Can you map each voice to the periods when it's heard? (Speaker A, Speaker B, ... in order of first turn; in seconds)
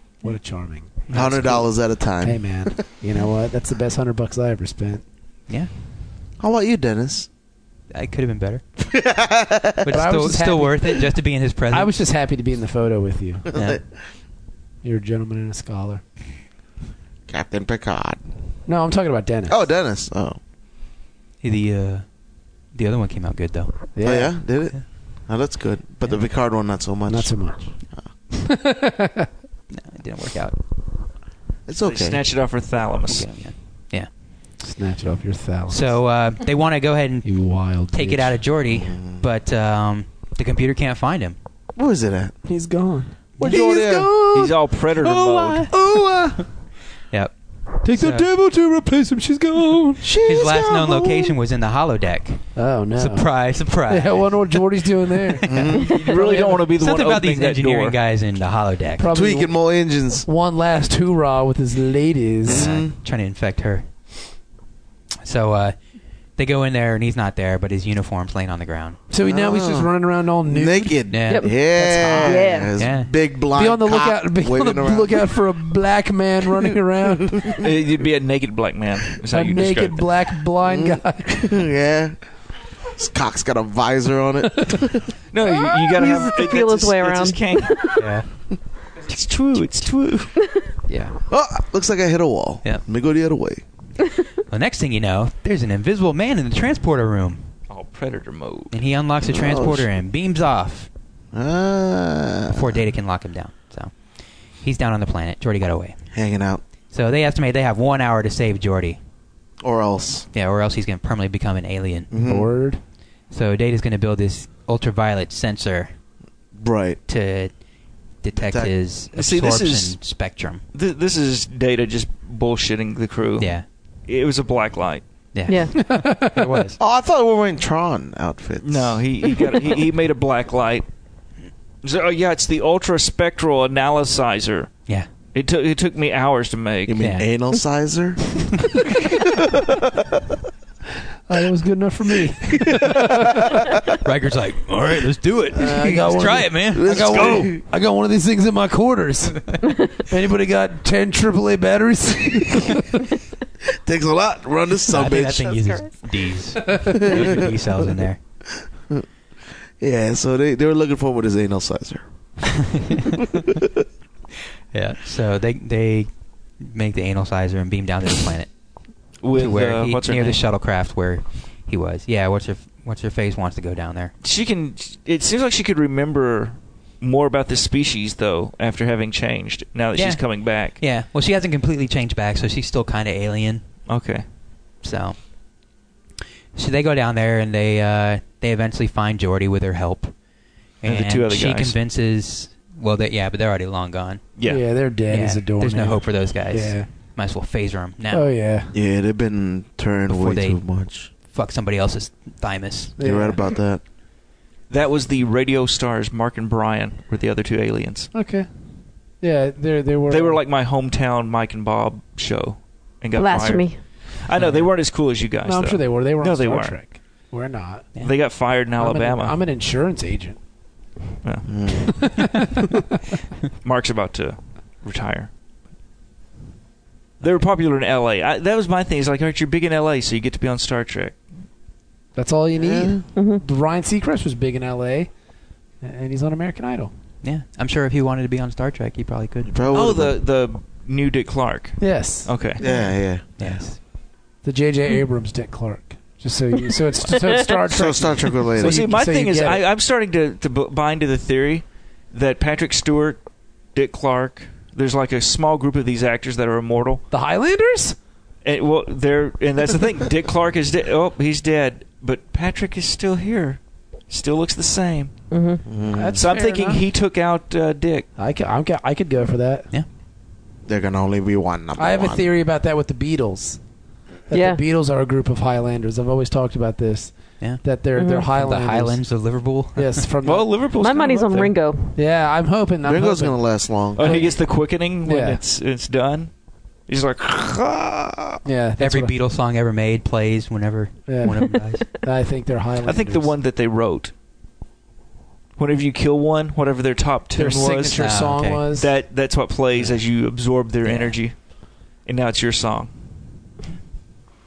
Speaker A: 0.2-1.7, 2.2-5.0, 9.9-11.0, 11.7-13.5, 14.8-16.0, 18.7-19.6, 23.9-24.4, 27.1-27.7, 28.4-29.3, 34.6-35.9, 37.2-38.4, 42.5-44.5, 45.7-46.4, 47.8-50.1, 52.6-56.7, 59.0-59.5, 60.2-62.8, 69.1-72.6, 73.5-77.6, 79.3-81.6, 90.9-91.2, 112.2-112.8, 125.8-126.7, 141.3-143.7, 145.8-153.0, 194.4-196.9, 198.1-198.7, 203.0-203.4, 208.1-208.5, 209.2-210.4, 215.5-218.0, 218.8-220.4, 222.0-222.3, 232.2-235.1, 235.8-236.9, 241.8-242.8, 243.4-243.7, 244.4-249.6, 257.1-257.9, 265.9-266.8, 268.2-269.7, 271.8-273.6, 274.3-279.0, 279.8-280.5, 282.0-285.4, 288.4-289.1, 291.1-291.4, 292.0-293.4, 297.4-298.9
Speaker B: 1.1-2.8, 6.4-7.3, 8.8-10.0, 13.5-13.8, 17.3-18.3, 19.5-20.4, 24.0-27.4, 31.7-32.2, 38.7-39.2, 41.8-42.4, 43.4-44.1, 50.0-51.4, 55.5-55.9, 59.1-60.3, 62.5-62.9, 69.2-69.9, 70.5-75.4, 77.0-77.7, 80.7-82.2, 83.0-85.1, 91.3-93.6, 99.2-99.9, 101.3-102.8, 106.1-106.6, 109.6-110.3, 112.1-112.5, 116.5-117.0, 118.4-118.7, 126.8-129.0, 136.9-138.4, 139.1-140.2, 142.5-143.7, 145.5-147.6, 153.8-155.8, 156.9-157.5, 159.8-162.0, 198.7-201.1, 203.0-203.8, 221.5-221.8, 232.6-233.1, 239.5-240.2, 242.6-243.3, 247.7-248.8, 265.7-266.2, 270.7-272.3, 282.8-284.1
Speaker C: 7.9-8.6, 9.8-12.0, 13.5-13.8, 21.4-23.9, 29.7-30.6, 33.1-34.1, 35.7-41.4, 43.4-43.6, 45.1-45.7, 47.1-48.3, 50.2-54.6, 55.3-55.9, 56.8-59.1, 62.5-63.9, 65.2-65.8, 66.3-69.0, 71.1-71.5, 72.8-73.1, 88.0-88.3, 94.5-97.5, 98.7-100.9, 102.5-106.0, 106.9-109.0, 110.3-112.1, 113.3-115.9, 117.1-117.5, 118.2-120.6, 123.4-123.7, 125.3-126.8, 137.0-137.3, 144.0-147.2, 154.9-158.2, 162.7-163.2, 164.7-174.1, 179.9-183.7, 184.8-185.3, 186.6-190.1, 190.8-194.2, 195.1-198.3, 200.1-203.0, 214.4-214.7, 237.2-239.6, 243.4-243.8, 278.3-280.0, 288.8-291.9, 298.0-298.6, 300.9-301.2
Speaker D: 31.8-33.3, 44.3-45.7, 55.9-58.0, 77.6-80.1, 85.3-88.1, 89.1-90.3, 97.7-98.7, 119.1-120.0, 120.7-125.0, 128.6-130.9, 131.8-134.8, 135.3-137.0, 169.2-170.4, 174.2-180.8, 183.9-184.2, 190.8-191.8, 194.4-194.6, 204.7-208.1, 210.1-216.8, 218.0-219.4, 223.6-225.3, 227.2-231.2, 239.7-242.6, 248.6-257.0, 258.4-265.2, 266.1-268.1, 280.2-281.6, 284.0-286.4, 286.9-288.4, 292.8-294.1, 295.6-298.1, 298.8-302.9
Speaker E: 71.3-71.6, 72.1-72.7, 85.5-88.0, 125.5-125.7, 213.2-213.9, 233.1-233.4, 247.2-247.5, 265.3-265.7, 274.3-274.6, 278.0-278.3, 280.8-282.0